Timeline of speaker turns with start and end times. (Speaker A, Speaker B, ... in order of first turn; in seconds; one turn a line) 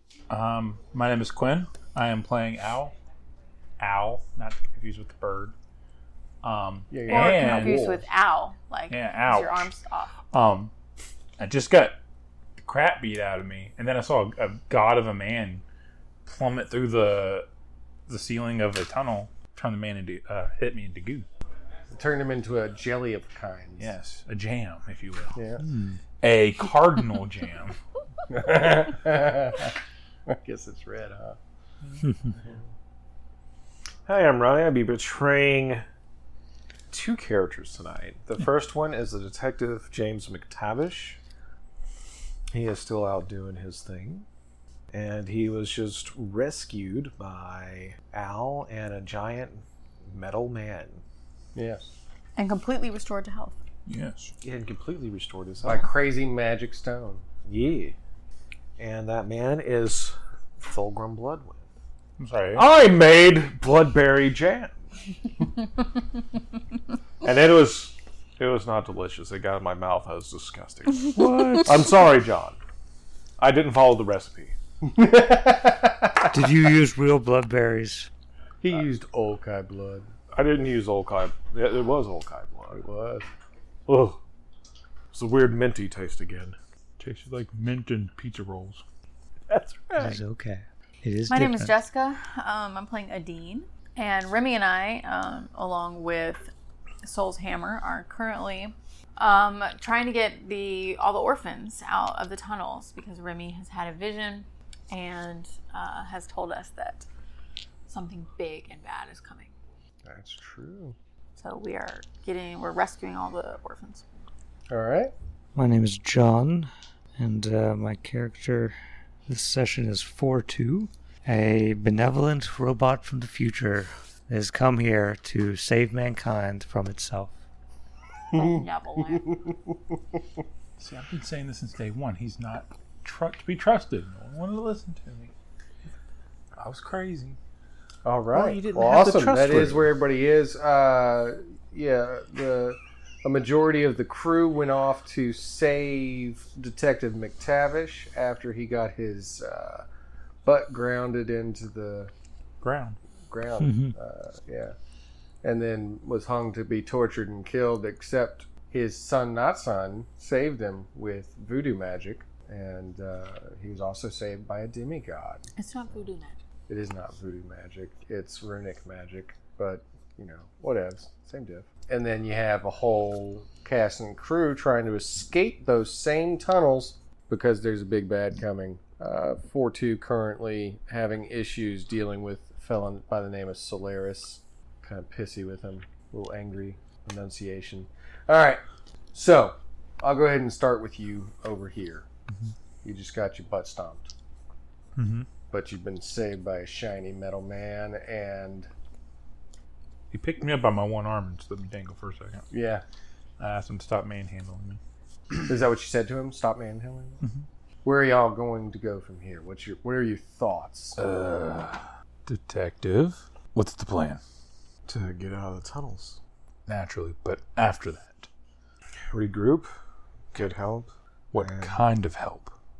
Speaker A: 0.3-2.9
Speaker A: 3.8-5.5
Speaker A: 6.4-7.9
Speaker B: 6.9-8.0
Speaker C: 7.1-10.1
Speaker A: 8.9-9.7
Speaker A: 10.3-10.7
Speaker A: 11.4-12.0
Speaker A: 12.6-15.6
Speaker A: 16.2-17.5
Speaker A: 18.1-21.2
Speaker B: 21.9-23.9
Speaker A: 23.8-27.8
Speaker B: 25.3-25.6
Speaker B: 28.3-29.7
Speaker B: 30.3-31.4
Speaker D: 34.1-35.8
Speaker D: 36.9-41.2
Speaker D: 42.5-44.2
Speaker D: 44.9-51.0
Speaker B: 51.5-51.9
Speaker C: 52.4-53.6
Speaker A: 53.9-54.3
Speaker D: 54.4-55.9
Speaker B: 55.6-57.2
Speaker D: 57.5-57.9
Speaker D: 58.8-61.6
Speaker A: 62.2-62.6
Speaker D: 62.5-64.8
Speaker D: 67.2-72.6
Speaker E: 71.2-71.6
Speaker D: 73.4-74.5
Speaker B: 74.8-76.2
Speaker E: 76.3-78.1
Speaker B: 78.6-80.1
Speaker D: 80.3-82.8
Speaker B: 82.7-83.3
Speaker D: 83.9-84.2
Speaker D: 85.1-86.5
Speaker A: 87.0-88.8
Speaker D: 89.5-90.2
Speaker E: 90.0-91.7
Speaker C: 91.3-96.5
Speaker C: 97.0-107.0
Speaker C: 107.9-109.5
Speaker B: 110.0-111.0
Speaker C: 111.4-114.1
Speaker B: 114.7-115.1
Speaker E: 115.5-118.7
Speaker E: 119.3-127.3
Speaker C: 128.3-129.3
Speaker B: 128.3-128.6
Speaker B: 129.2-129.6
Speaker A: 130.8-135.3
Speaker A: 136.6-137.4
Speaker B: 138.0-149.8
Speaker D: 138.3-139.9
Speaker B: 150.4-152.1
Speaker A: 152.6-152.9
Speaker B: 153.3-154.7
Speaker E: 153.6-153.9
Speaker B: 155.4-165.4
Speaker C: 165.6-166.4
Speaker B: 166.7-188.6
Speaker B: 189.1-192.1
Speaker B: 192.8-194.1
Speaker A: 194.9-195.3
Speaker B: 195.5-198.7
Speaker A: 200.1-202.5
Speaker B: 202.5-202.8
Speaker A: 203.4-204.8
Speaker B: 205.5-207.2
Speaker B: 207.8-211.0
Speaker A: 210.9-214.2
Speaker D: 214.9-216.2
Speaker A: 216.7-218.3
Speaker D: 219.1-219.7
Speaker D: 220.3-221.7
Speaker A: 221.3-222.5